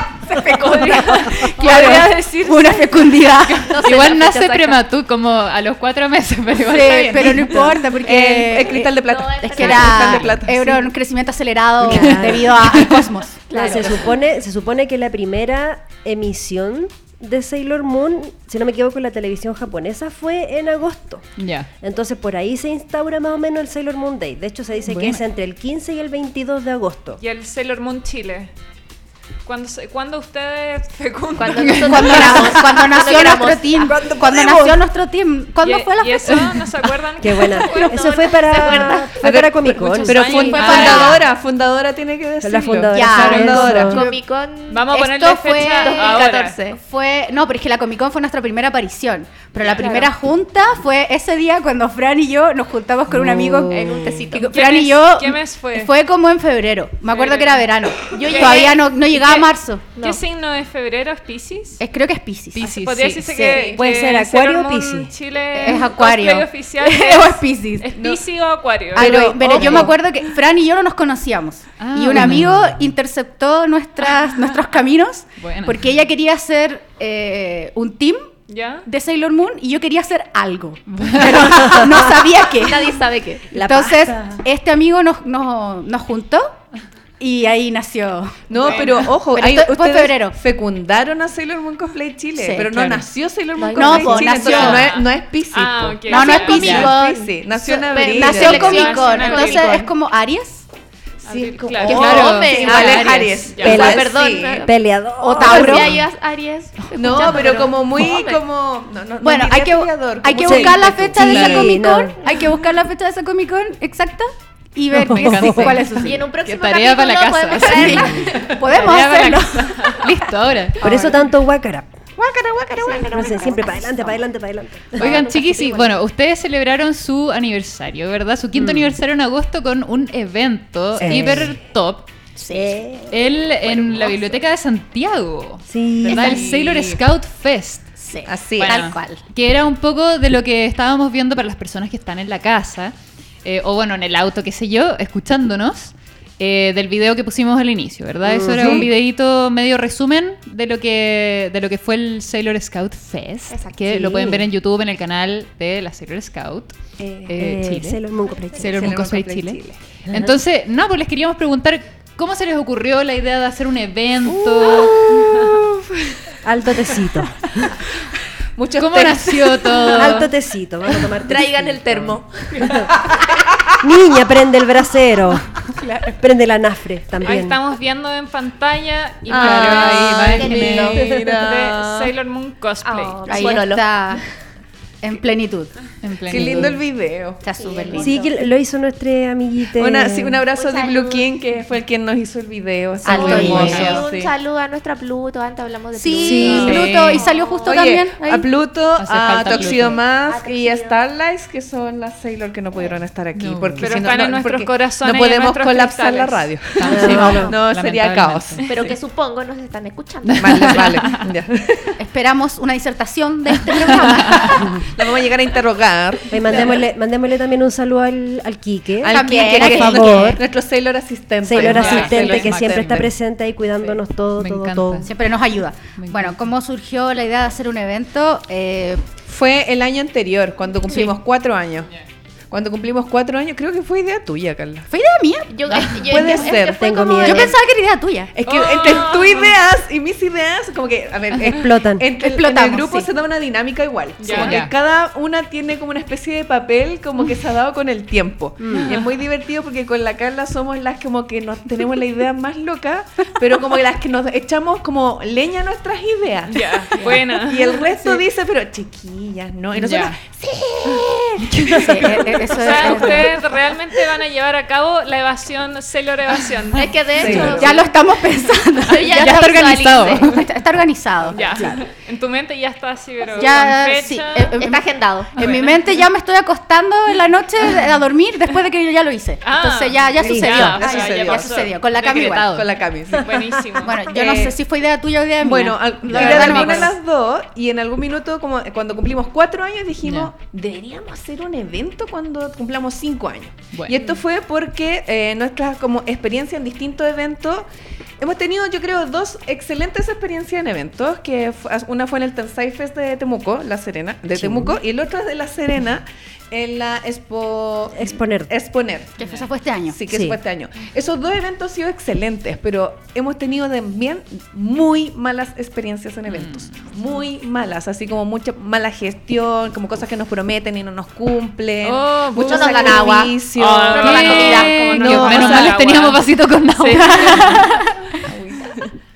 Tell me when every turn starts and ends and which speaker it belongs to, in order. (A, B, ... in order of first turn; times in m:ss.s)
0:00.3-0:03.9 A
0:00.3-0:03.5 B
0:03.6-0:04.8 C
0:03.7-0:07.7 D
0:06.6-0:14.0 A
0:08.0-0:10.9 E
0:09.0-0:10.3 C
0:11.8-0:12.7 F
0:11.9-0:13.1 D
0:13.5-0:14.2 C
0:13.5-0:21.3 F
0:21.4-0:21.7 D
0:21.8-0:27.2 F
0:24.9-0:25.2 D
0:27.2-0:28.5 B
0:29.4-0:32.3 B
0:31.4-0:34.1 C
0:31.5-0:32.6 D
0:31.8-0:36.5 A
0:33.8-0:34.8 F
0:35.6-0:38.5 B
0:36.3-0:36.6 D
0:37.2-0:40.5 F
0:37.7-0:39.2 C
0:39.1-0:44.0 E
0:39.9-0:41.2 B
0:40.4-0:41.1 C
0:40.5-0:41.2 A
0:40.6-0:41.1 D
0:42.4-0:44.0 F
0:42.9-0:44.2 A
0:43.2-0:43.8 D
0:43.9-0:46.8 C
0:44.7-0:46.6 B
0:44.9-0:59.8 A
0:49.6-0:50.1 C
0:53.1-0:54.3 F
0:53.7-0:54.5 C
0:54.4-0:55.9 B
0:57.1-0:57.7 B
0:58.1-0:58.8 C
0:58.2-0:59.4 B
1:00.0-1:00.2 C
1:00.0-1:01.8 B
1:01.8-1:03.7 A
1:02.6-1:03.4 D
1:02.6-1:09.2 B
1:03.5-1:03.8 E
1:03.7-1:05.1 F
1:05.5-1:07.9 A
1:07.9-1:08.2 E
1:08.9-1:10.0 E
1:08.9-1:18.3 A
1:11.8-1:12.8 D
1:15.4-1:16.0 D
1:18.5-1:18.8 B
1:18.8-1:23.0 A
1:20.9-1:21.8 D
1:21.6-1:22.1 F
1:22.5-1:23.6 C
1:23.5-1:24.4 F
1:23.6-1:26.6 A
1:27.2-1:30.4 A
1:28.5-1:38.9 E
1:28.6-1:28.9 B
1:32.4-1:32.6 A
1:32.7-1:33.0 D
1:33.6-1:34.8 C
1:33.7-1:34.9 A
1:34.3-1:36.8 B
1:36.1-1:37.2 A
1:36.1-1:39.8 C
1:36.5-1:36.9 D
1:38.0-1:40.6 A
1:38.3-1:39.8 B
1:41.2-1:42.2 B
1:41.2-1:44.7 E
1:41.8-1:43.5 D
1:41.8-1:44.7 C
1:43.5-1:43.8 B
1:43.6-1:44.1 F
1:44.6-1:46.0 F
1:45.2-1:46.0 A
1:45.4-1:48.4 C
1:46.9-1:51.3 E
1:49.2-1:56.2 A
1:50.4-1:52.2 F
1:51.2-1:51.8 D
1:55.0-1:55.7 F
1:55.0-2:00.9 D
1:56.0-1:58.8 C
1:57.6-2:00.0 A
1:57.9-1:58.3 F
1:58.7-2:00.0 B
2:00.8-2:01.9 F
2:00.8-2:01.2 A
2:02.2-2:04.2 C
2:03.0-2:05.2 F
2:05.0-2:06.0 C
2:05.0-2:12.1 D
2:11.0-2:11.6 F
2:12.4-2:12.9 A
2:13.1-2:17.9 D
2:15.7-2:16.4 F
2:16.2-2:17.0 E
2:18.0-2:19.2 A
2:18.2-2:18.8 E
2:18.6-2:38.0 D
2:28.2-2:28.9 F
2:28.3-2:28.9 E
2:33.5-2:34.1 C
2:33.9-2:34.4 F
2:37.0-2:39.2 F
2:38.6-2:45.4 D
2:38.7-2:39.7 E
2:44.3-2:46.4 E
2:46.4-2:47.8 F
2:48.6-2:50.1 E
2:48.8-2:50.3 D
2:49.9-2:52.9 F
2:51.1-2:52.9 C
2:52.6-2:53.2 E
2:53.8-2:55.6 F
2:56.2-2:57.6 F
2:57.2-3:00.4 B
2:59.3-3:01.2 C
2:59.3-3:01.0 D
2:59.4-3:02.1 E
3:01.3-3:03.5 B
3:02.8-3:03.9 C
3:03.3-3:04.2 A
3:05.0-3:05.7 A
3:06.0-3:06.8 D
3:06.3-3:07.4 E
3:07.4-3:08.2 A
3:07.5-3:08.4 C
3:08.0-3:10.4 F
3:09.7-3:14.3 E
3:10.5-3:11.3 C
3:13.0-3:14.0 A
3:13.1-3:17.8 C
3:13.2-3:14.0 D
3:15.9-3:18.5 A
3:16.2-3:16.8 F
3:16.4-3:17.2 D
3:17.6-3:28.9 E
3:19.0-3:20.0 D
3:19.5-3:21.0 C
3:23.3-3:24.0 D
3:23.8-3:26.5 B
3:26.8-3:28.7 D
3:26.8-3:27.5 F
3:28.7-3:31.0 C
3:30.2-3:31.2 D
3:30.4-3:31.9 E
3:32.0-3:34.7 A
3:34.3-3:34.6 D
3:34.6-3:36.8 E
3:36.3-3:40.4 F
3:39.0-3:43.1 E
3:39.0-3:40.4 A
3:41.4-3:45.1 F
3:41.6-3:43.1 D
3:44.4-3:45.1 D
3:45.0-3:49.0 A
3:46.0-3:46.4 D
3:49.2-3:51.9 E
3:52.5-3:54.9 E
3:54.9-3:56.0 A
3:55.5-3:57.6 C
3:56.0-3:56.9 E
3:56.6-3:57.5 F
3:57.2-3:58.3 A
3:58.3-4:23.1 E
3:58.4-3:59.6 B
4:01.4-4:02.0 F
4:02.2-4:03.1 A
4:04.2-4:04.6 B
4:04.3-4:04.7 D
4:16.5-4:17.8 B
4:17.0-4:17.3 D
4:19.7-4:20.2 D
4:21.5-4:22.0 D
4:21.7-4:23.4 A
4:22.6-4:27.4 B
4:26.7-4:27.9 C
4:27.1-4:27.8 E
4:27.4-4:31.6 A
4:28.8-4:30.5 C
4:29.0-4:30.4 D
4:31.3-4:34.6 B
4:31.5-4:31.8 F
4:33.3-4:42.5 A
4:34.6-4:35.3 C
4:35.4-4:35.7 B
4:35.4-4:35.7 D
4:39.4-4:41.8 B
4:40.2-4:40.8 F
4:40.3-4:43.5 E
4:42.1-4:42.7 D
4:43.2-4:44.1 B
4:43.8-4:46.9 A
4:44.1-4:44.6 E
4:45.4-4:57.7 E
4:46.1-4:46.9 D
4:50.0-4:50.3 D
4:53.7-4:54.0 D
4:58.2-5:09.2 E
5:04.3-5:04.8 F
5:07.9-5:08.5 F
5:09.2-5:10.0 A
5:09.9-5:26.0 E
5:10.1-5:10.4 F
5:16.3-5:16.8 D
5:21.8-5:27.7 B
5:22.4-5:25.6 C
5:24.0-5:27.8 D
5:26.9-5:28.1 A
5:28.2-5:28.8 E